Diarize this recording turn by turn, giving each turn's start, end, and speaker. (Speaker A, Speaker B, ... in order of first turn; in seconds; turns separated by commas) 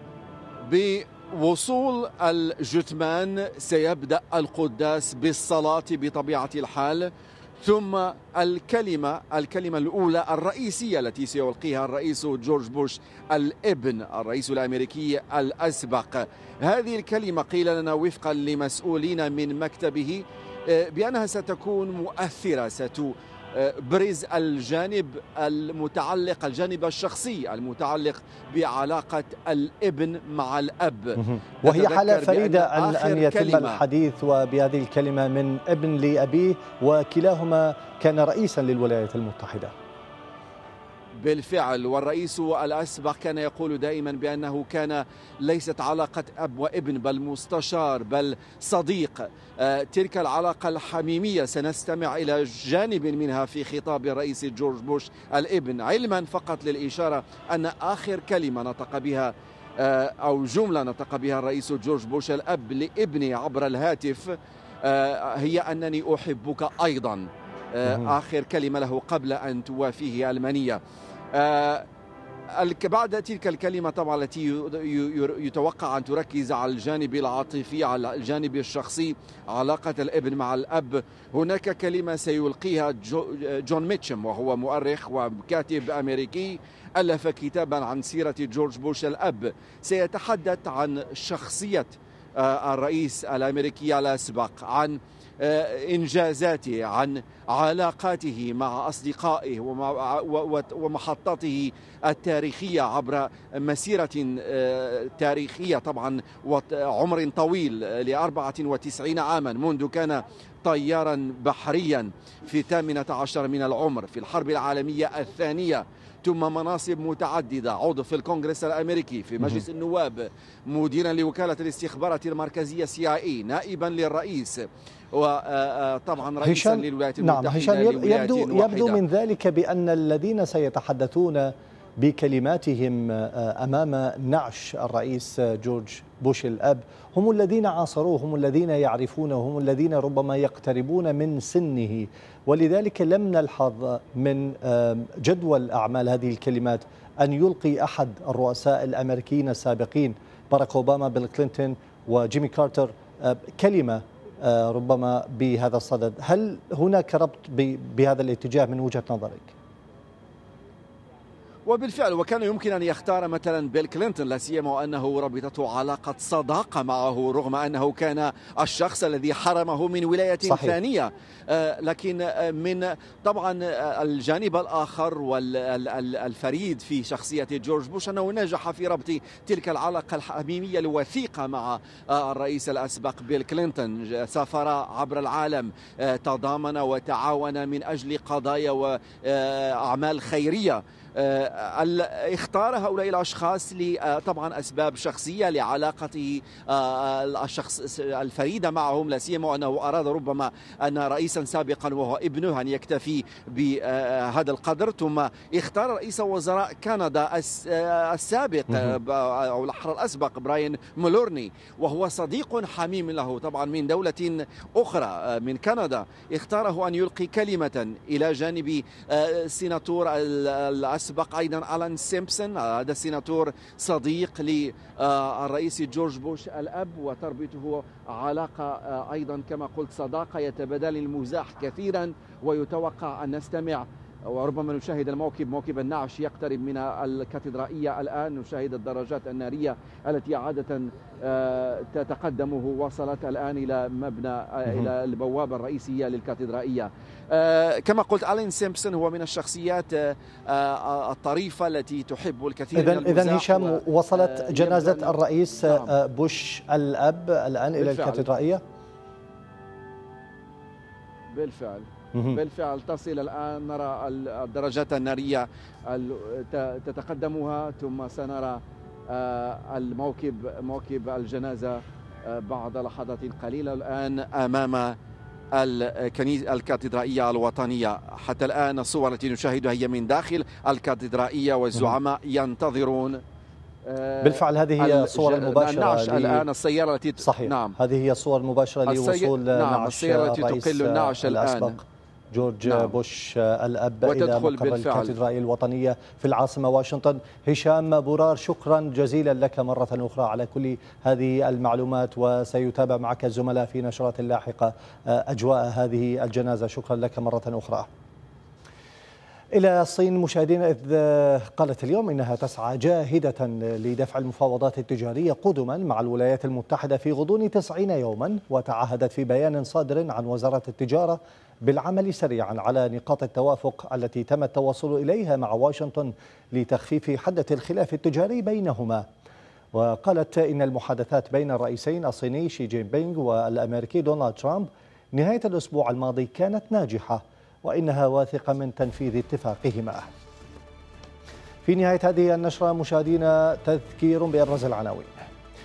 Speaker A: 0.7-7.1, Speaker A: 7.6-33.8, Speaker B: 31.2-39.7, Speaker A: 41.2-70.8, Speaker B: 67.8-68.1, Speaker A: 71.3-71.9, Speaker A: 72.5-129.0, Speaker B: 126.4-159.5, Speaker A: 161.7-255.9, Speaker B: 170.4-170.7, Speaker B: 208.7-209.0, Speaker B: 244.7-244.9, Speaker B: 252.7-258.6, Speaker A: 257.8-258.3, Speaker A: 261.3-274.9, Speaker B: 262.1-262.4, Speaker A: 275.5-283.2, Speaker A: 283.8-287.8, Speaker B: 284.2-286.5, Speaker B: 287.2-307.9, Speaker A: 288.9-291.8, Speaker A: 292.6-292.9, Speaker A: 294.0-295.1, Speaker B: 309.5-329.1, Speaker B: 329.7-340.1, Speaker B: 341.6-345.3